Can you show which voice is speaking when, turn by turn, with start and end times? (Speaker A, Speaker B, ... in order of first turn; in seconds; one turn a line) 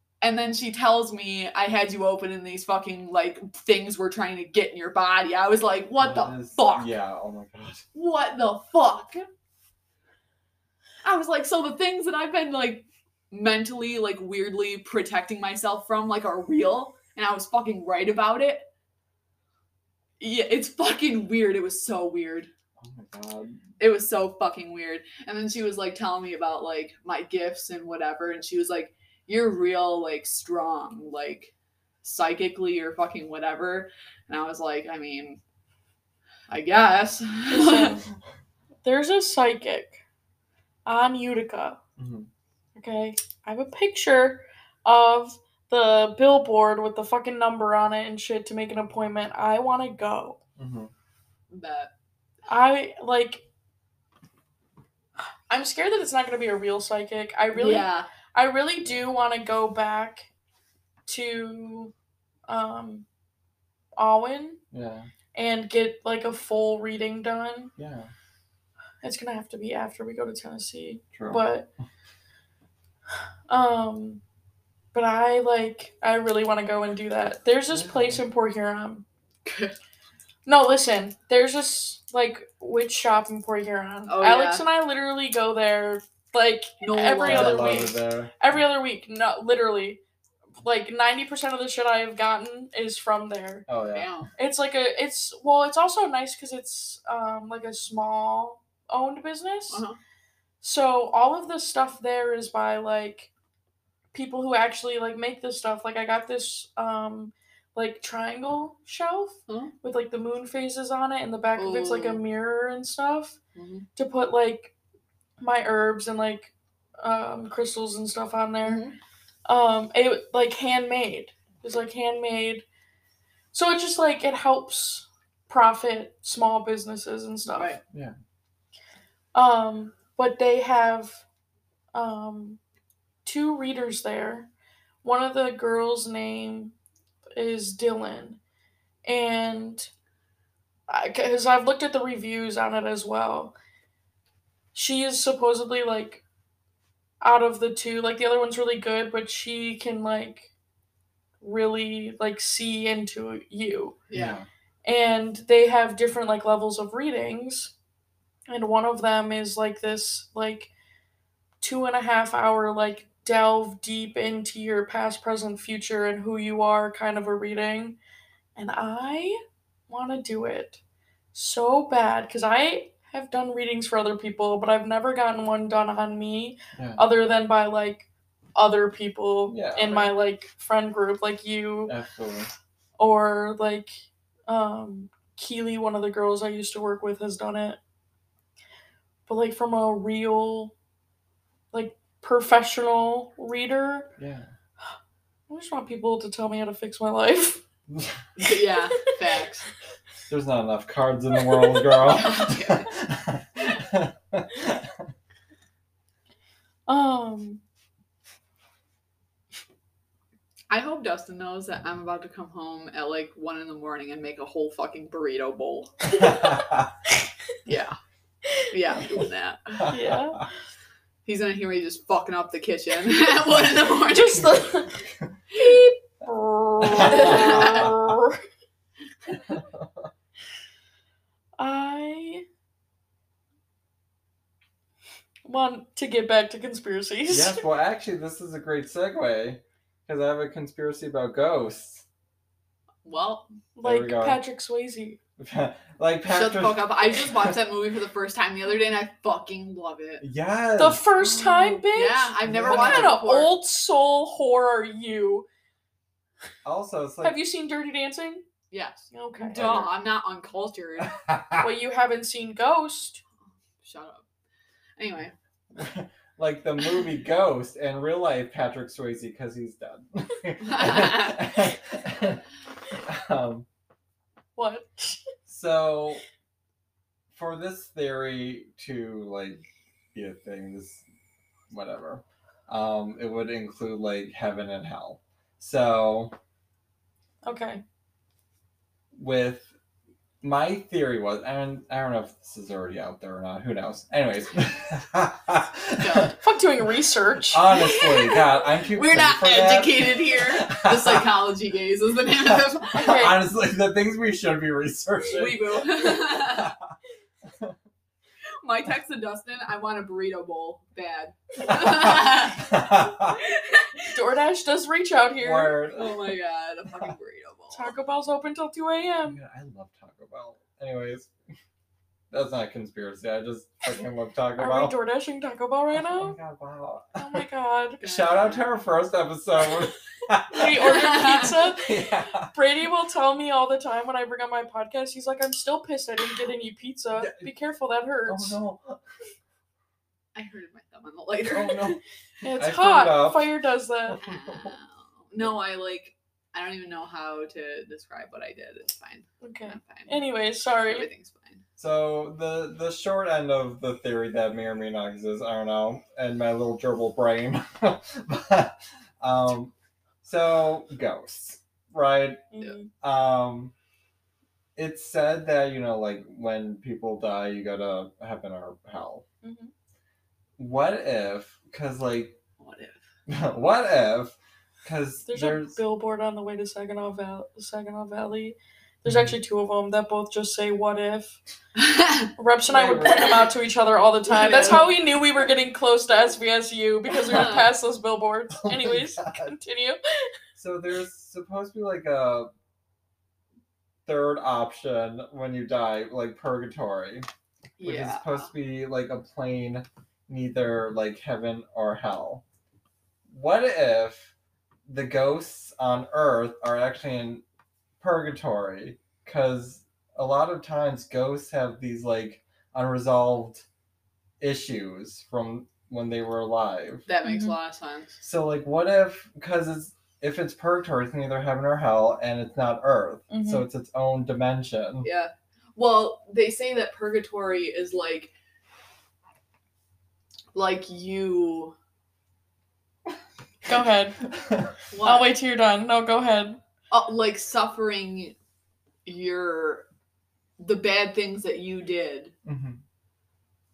Speaker A: 0.2-6.9
Speaker B: 6.0-7.8
Speaker A: 7.9-9.2
Speaker A: 11.0-18.7
Speaker A: 20.2-22.5
Speaker B: 22.8-23.6
Speaker A: 23.8-35.4
Speaker A: 36.5-38.0
Speaker C: 37.5-38.0
Speaker C: 38.8-40.0
Speaker C: 40.9-41.8
Speaker B: 42.0-42.3
Speaker C: 42.8-50.4
Speaker B: 50.6-50.9
Speaker A: 51.5-51.9
Speaker C: 52.5-53.5
Speaker C: 55.5-60.3
Speaker A: 57.5-58.1
Speaker C: 61.1-61.9
Speaker C: 62.5-63.0
Speaker C: 64.0-64.6
Speaker B: 64.7-65.1
Speaker C: 65.3-67.7
Speaker B: 67.8-68.1
Speaker C: 69.0-71.7
Speaker B: 71.2-71.4
Speaker C: 73.5-74.2
Speaker C: 74.9-79.0
Speaker B: 77.7-78.2
Speaker A: 79.5-79.8
Speaker C: 80.5-90.0
Speaker A: 84.1-84.6
Speaker A: 86.8-87.9
Speaker B: 87.2-88.4
Speaker C: 90.6-93.7
Speaker B: 93.7-94.1
Speaker A: 93.9-94.3
Speaker C: 94.4-99.8
Speaker A: 99.7-100.0
Speaker C: 100.6-103.3
Speaker C: 104.1-113.4
Speaker A: 109.5-109.7
Speaker A: 111.6-112.2
Speaker A: 113.6-113.9
Speaker C: 114.0-114.7
Speaker C: 115.4-118.8
Speaker A: 118.6-119.0
Speaker C: 119.5-122.7
Speaker C: 123.5-127.8
Speaker A: 127.5-127.8
Speaker C: 129.3-131.2
Speaker C: 131.9-132.6
Speaker C: 133.2-134.5
Speaker C: 135.0-136.7
Speaker C: 137.3-138.4
Speaker C: 139.1-139.9
Speaker C: 140.9-143.6
Speaker C: 144.8-146.2
Speaker C: 147.2-150.5
Speaker C: 151.4-154.0
Speaker A: 154.1-154.4
Speaker B: 154.1-154.5
Speaker C: 154.8-157.7
Speaker C: 158.5-160.7
Speaker C: 161.6-168.0
Speaker C: 168.6-170.8
Speaker C: 171.3-181.9
Speaker B: 176.8-177.0
Speaker B: 179.5-180.0
Speaker B: 181.9-182.5
Speaker C: 183.0-187.8
Speaker C: 189.3-190.7
Speaker C: 191.7-194.1
Speaker B: 194.2-194.5
Speaker C: 195.5-197.6
Speaker B: 197.9-198.2
Speaker A: 198.4-199.7
Speaker B: 200.3-205.1
Speaker C: 201.4-202.0
Speaker A: 202.1-202.9
Speaker C: 206.9-207.6
Speaker A: 210.7-216.0
Speaker B: 216.2-216.9
Speaker A: 217.7-218.0
Speaker A: 218.7-219.9
Speaker B: 219.8-220.4
Speaker C: 219.9-220.5
Speaker A: 221.2-224.5
Speaker C: 224.1-228.4
Speaker B: 224.4-225.4
Speaker B: 226.8-228.2
Speaker A: 227.1-227.9
Speaker B: 229.5-230.1
Speaker C: 231.6-232.4
Speaker C: 235.5-237.6
Speaker B: 237.3-242.1
Speaker A: 243.1-243.5
Speaker C: 243.8-245.2
Speaker B: 243.8-244.4
Speaker B: 245.4-247.5
Speaker A: 246.3-250.2
Speaker B: 250.2-251.8
Speaker C: 250.8-255.5
Speaker A: 251.9-253.5
Speaker B: 252.5-253.2
Speaker B: 256.6-257.4
Speaker C: 257.2-258.5
Speaker A: 258.7-261.2
Speaker C: 259.1-259.6
Speaker B: 259.5-259.9
Speaker B: 261.1-261.7
Speaker C: 261.6-263.2
Speaker A: 263.8-264.3
Speaker A: 265.0-265.3
Speaker B: 265.7-273.7
Speaker A: 270.6-271.5
Speaker C: 274.6-275.3
Speaker B: 275.5-276.2
Speaker B: 277.3-281.0
Speaker B: 281.7-286.4
Speaker C: 287.4-287.8
Speaker B: 289.1-289.7
Speaker B: 290.4-296.4
Speaker A: 296.0-296.3
Speaker C: 296.4-298.4
Speaker B: 297.4-301.3
Speaker A: 298.9-303.1
Speaker B: 302.5-305.9
Speaker C: 303.0-303.4
Speaker A: 305.3-306.7
Speaker B: 306.5-306.9
Speaker B: 307.5-307.8
Speaker A: 308.6-312.7
Speaker B: 311.6-313.4
Speaker A: 313.3-314.2
Speaker C: 314.1-315.8
Speaker B: 315.4-316.4
Speaker A: 316.0-317.9
Speaker C: 317.7-319.4
Speaker B: 319.2-321.3
Speaker B: 322.3-324.9
Speaker C: 324.6-326.4
Speaker B: 325.9-327.4
Speaker C: 327.2-328.0
Speaker A: 328.0-328.6
Speaker B: 328.0-332.5
Speaker C: 330.5-338.6
Speaker A: 330.8-331.5
Speaker B: 337.2-337.5
Speaker B: 338.3-339.0
Speaker A: 340.4-342.0
Speaker B: 341.5-343.5
Speaker C: 342.4-344.2
Speaker B: 344.1-344.8
Speaker A: 344.2-350.3
Speaker C: 349.4-351.1
Speaker A: 350.8-351.6
Speaker B: 351.8-359.7
Speaker B: 360.2-363.7
Speaker C: 362.5-362.9
Speaker B: 364.8-369.2
Speaker C: 369.4-369.7
Speaker B: 370.6-372.4
Speaker A: 372.6-373.0
Speaker B: 373.3-375.8
Speaker C: 375.3-381.4
Speaker B: 379.1-379.4
Speaker A: 381.8-382.3
Speaker C: 382.4-390.3
Speaker B: 382.6-383.5
Speaker A: 383.1-383.4
Speaker A: 384.3-385.0
Speaker A: 387.2-387.7
Speaker B: 387.3-387.6
Speaker B: 388.6-389.5
Speaker B: 390.6-392.5
Speaker B: 394.1-397.3
Speaker A: 397.8-398.5
Speaker B: 397.8-402.4
Speaker B: 403.3-404.3
Speaker B: 404.9-407.4
Speaker B: 408.0-413.7
Speaker B: 414.4-417.1
Speaker A: 417.1-418.2
Speaker C: 417.2-417.6
Speaker B: 418.2-425.1
Speaker C: 423.3-423.6
Speaker A: 425.0-428.3
Speaker A: 430.6-431.8
Speaker C: 433.7-434.2
Speaker B: 434.3-434.7
Speaker A: 434.9-435.3
Speaker C: 435.0-436.6
Speaker A: 436.9-438.4
Speaker A: 439.1-439.9
Speaker A: 440.6-442.3
Speaker B: 442.4-442.8